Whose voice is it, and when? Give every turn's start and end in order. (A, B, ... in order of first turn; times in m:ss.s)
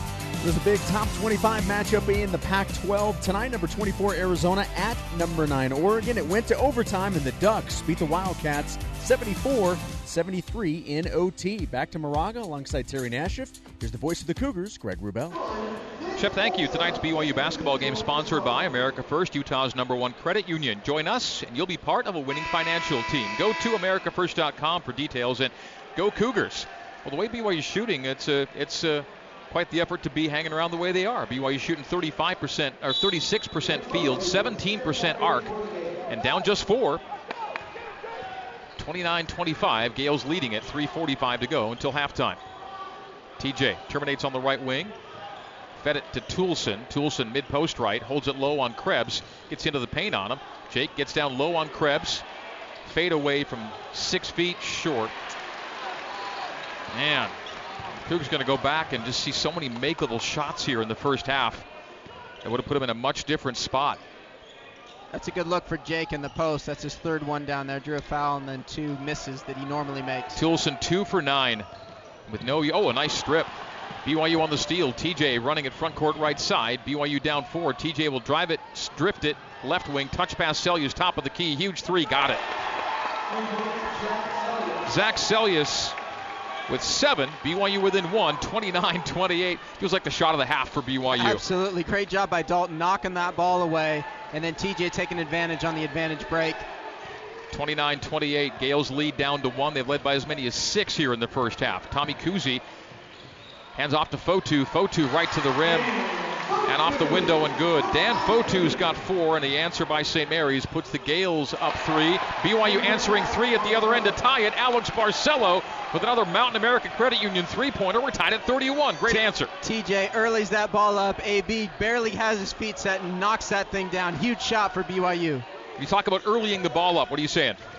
0:00.4-0:15.4 A
0:16.2-0:35.5 B
0:36.1-0:37.0 B
0:38.8-0:42.4 B
0:43.4-0:44.9 B
0:45.8-0:52.2 B
0:52.8-0:55.1 B
0:56.9-0:57.3 B
0:58.0-1:01.7 B
1:02.4-1:04.0 B
1:05.1-1:10.4 C
1:10.3-1:11.7 B
1:12.3-1:13.5 B
1:14.0-1:22.4 B
1:24.8-1:26.0 B
1:26.7-1:31.4 B
1:31.1-1:36.6 C
1:37.5-1:42.6 B
1:43.8-1:45.9 B
1:46.6-1:59.5 B
1:59.1-2:05.4 C
2:05.8-2:07.6 B